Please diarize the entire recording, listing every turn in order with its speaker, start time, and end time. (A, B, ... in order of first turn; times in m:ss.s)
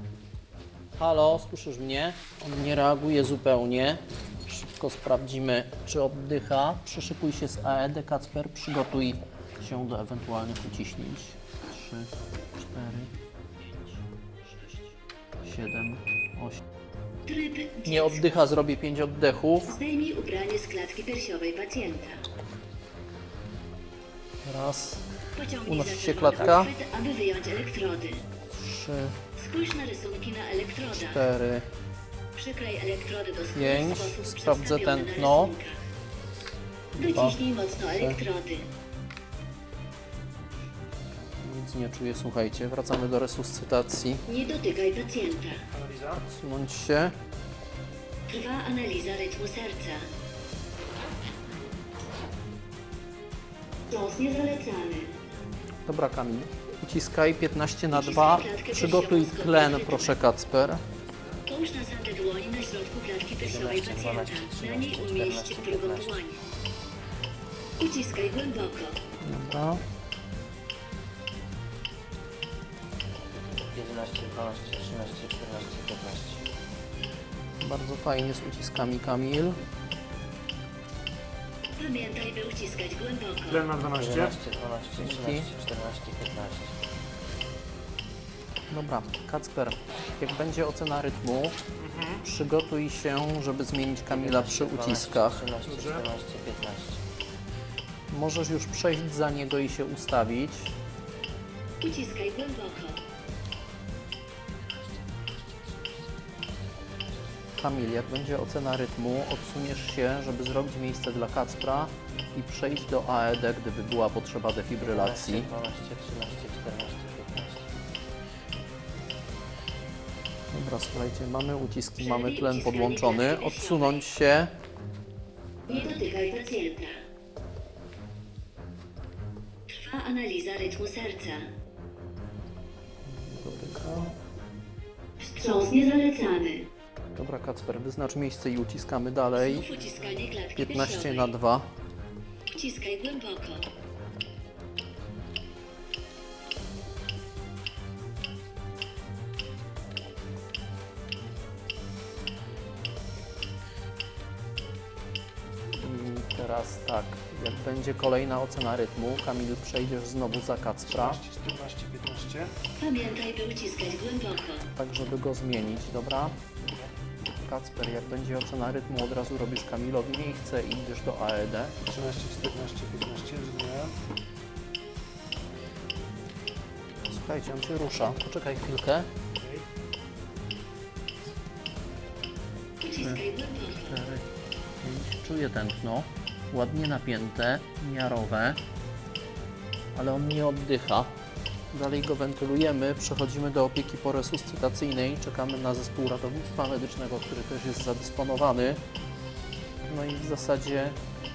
0:01.0-0:13.1 A
0:15.4-0:16.6 A
0:17.3-0:18.3 B
0:17.9-0:19.8 A
0:19.7-0:22.2 B
0:24.4-0:25.1 A
0:25.4-0:28.2 B
0:25.6-0:26.7 A
0:28.5-0:29.2 A
0:29.4-0:31.3 B
0:30.9-0:31.7 A
0:32.4-0:35.8 B
0:33.5-0:35.6 A
0:36.9-0:37.4 A
0:37.0-0:38.7 B
0:37.9-0:38.2 A
0:41.4-0:44.2 A
0:44.3-0:45.6 B
0:45.7-0:46.2 C
0:46.1-0:47.1 A
0:48.3-0:50.1 B
0:53.9-0:55.2 B
0:55.9-1:00.8 A
0:57.9-1:00.2 B
1:01.5-1:06.4 B
1:03.4-1:06.2 D
1:07.8-1:09.0 B
1:09.2-1:09.8 A
1:13.4-1:16.4 D
1:17.6-1:19.6 A
1:21.8-1:23.8 B
1:23.5-1:24.3 C
1:23.8-1:26.8 D
1:25.0-1:25.5 A
1:28.7-1:31.6 A
1:32.1-1:35.4 A
1:34.1-1:37.0 D
1:35.7-1:36.0 C
1:38.1-1:40.7 A
1:41.8-1:43.0 B
1:45.0-1:45.9 D
1:47.6-1:55.5 A
1:54.8-1:57.7 D
2:00.5-2:04.5 A
2:02.0-2:04.1 B
2:05.7-2:07.0 B
2:09.7-2:11.5 B
2:13.0-2:14.2 A
2:15.2-2:16.7 B
2:17.2-2:19.7 A
2:19.3-2:21.3 B
2:20.6-2:21.7 A
2:22.5-2:23.7 B
2:35.8-2:41.2 A
2:40.9-2:42.6 C
2:42.8-2:44.7 B
2:44.7-2:46.4 A
2:47.4-2:51.8 A
2:51.8-2:54.0 C
2:57.1-2:59.1 A
2:59.3-2:59.7 C
3:02.8-3:04.0 B
3:03.0-3:03.2 A
3:03.9-3:04.3 A
3:04.8-3:08.6 A
3:09.9-3:11.2 A
3:11.7-3:18.8 A
3:19.9-3:21.0 A